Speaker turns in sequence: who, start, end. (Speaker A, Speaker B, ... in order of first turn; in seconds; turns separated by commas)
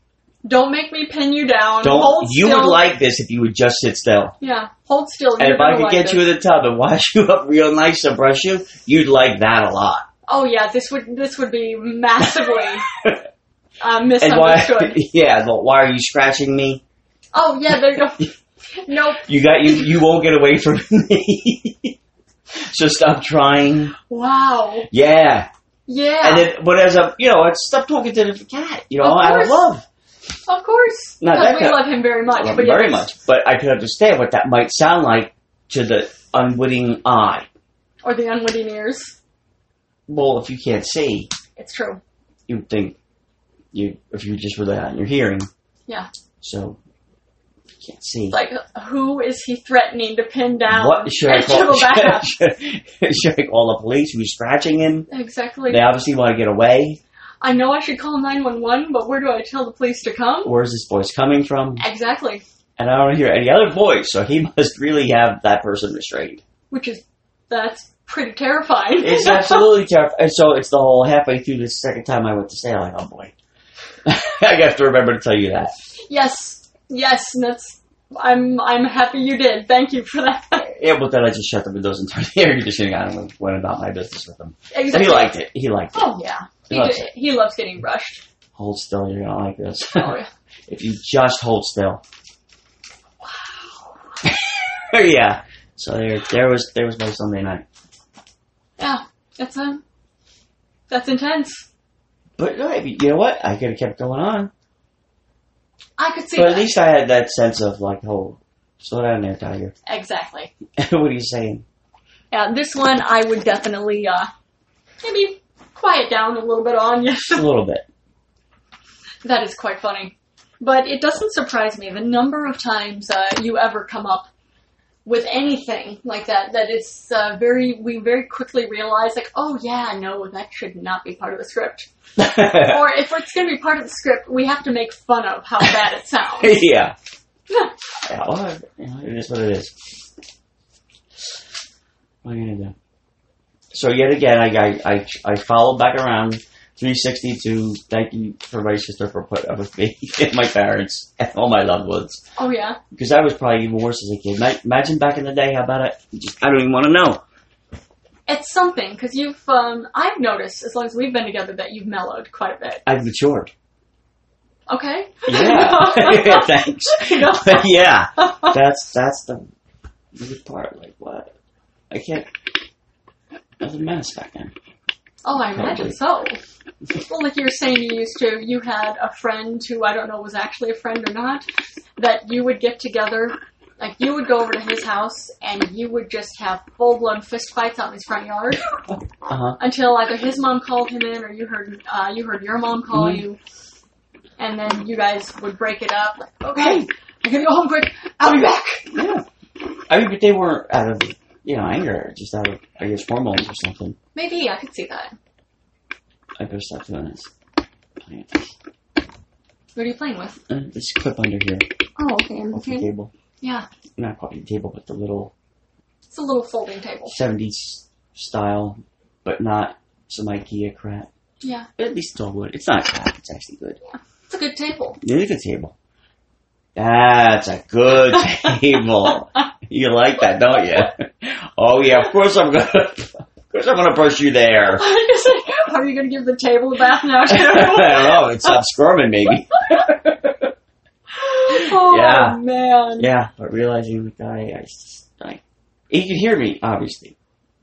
Speaker A: 0.4-2.8, Speaker B: 1.8-4.4, Speaker A: 4.4-6.2, Speaker B: 5.4-10.1, Speaker A: 10.3-12.9, Speaker B: 13.0-13.2, Speaker A: 13.8-15.0, Speaker B: 14.2-16.8, Speaker A: 17.3-19.8, Speaker B: 19.3-22.0, Speaker B: 22.6-24.0, Speaker A: 24.1-24.9, Speaker B: 24.9-25.5, Speaker A: 25.9-26.5, Speaker B: 26.2-29.9, Speaker A: 29.0-29.6, Speaker A: 30.5-33.1, Speaker B: 31.2-37.5, Speaker A: 38.0-39.1, Speaker B: 40.1-41.3, Speaker A: 41.6-42.0, Speaker B: 42.5-43.0, Speaker B: 43.7-45.5, Speaker B: 46.4-46.8, Speaker B: 47.8-48.4, Speaker A: 48.3-52.3, Speaker B: 50.7-55.1, Speaker A: 55.1-55.8, Speaker B: 55.7-57.0, Speaker A: 57.4-60.5, Speaker B: 60.5-61.8, Speaker A: 61.8-62.4, Speaker B: 62.8-66.4, Speaker A: 66.7-69.7, Speaker B: 69.0-73.3, Speaker B: 74.0-75.7, Speaker A: 76.1-80.7, Speaker B: 80.6-86.1, Speaker A: 84.7-85.4, Speaker A: 85.9-88.2, Speaker B: 86.7-87.1, Speaker B: 88.5-92.0, Speaker A: 90.0-90.3, Speaker A: 93.2-94.0, Speaker B: 94.2-97.7, Speaker A: 98.8-99.8, Speaker A: 100.9-101.7, Speaker B: 102.4-104.5, Speaker A: 106.0-106.7, Speaker B: 106.3-109.7, Speaker A: 109.9-110.5, Speaker B: 110.8-111.7, Speaker A: 112.3-114.3, Speaker A: 115.0-117.5, Speaker B: 117.3-117.9, Speaker A: 119.2-124.3, Speaker A: 125.0-136.6, Speaker B: 132.2-132.9, Speaker B: 136.4-137.0, Speaker B: 138.1-139.8, Speaker B: 142.2-142.8, Speaker B: 143.7-152.2, Speaker A: 152.4-152.8, Speaker B: 152.9-157.2, Speaker A: 158.3-162.8, Speaker B: 162.9-163.5, Speaker A: 164.7-168.6, Speaker B: 165.3-169.4, Speaker B: 170.2-171.3, Speaker B: 171.9-172.3, Speaker B: 173.6-174.5, Speaker A: 175.2-176.4, Speaker B: 175.5-175.9, Speaker A: 177.1-181.4, Speaker A: 182.0-188.7, Speaker B: 189.2-189.6, Speaker A: 189.6-193.4, Speaker B: 192.9-193.2, Speaker A: 194.4-198.9, Speaker B: 196.6-196.9, Speaker B: 198.9-199.2, Speaker B: 199.9-204.0, Speaker A: 204.2-205.2, Speaker B: 206.4-207.3, Speaker B: 208.0-208.5, Speaker A: 209.8-210.4, Speaker B: 210.5-211.7, Speaker A: 212.0-212.9, Speaker B: 212.5-213.1, Speaker A: 213.4-213.7, Speaker B: 214.0-215.3, Speaker A: 216.1-217.2, Speaker B: 217.1-221.1, Speaker A: 221.4-221.7, Speaker B: 221.8-223.8, Speaker A: 223.8-225.0, Speaker B: 225.0-225.8, Speaker B: 226.8-234.8, Speaker A: 228.2-228.5, Speaker A: 234.7-238.6, Speaker B: 237.3-240.5, Speaker A: 241.1-243.1, Speaker B: 241.5-242.4, Speaker B: 243.0-247.2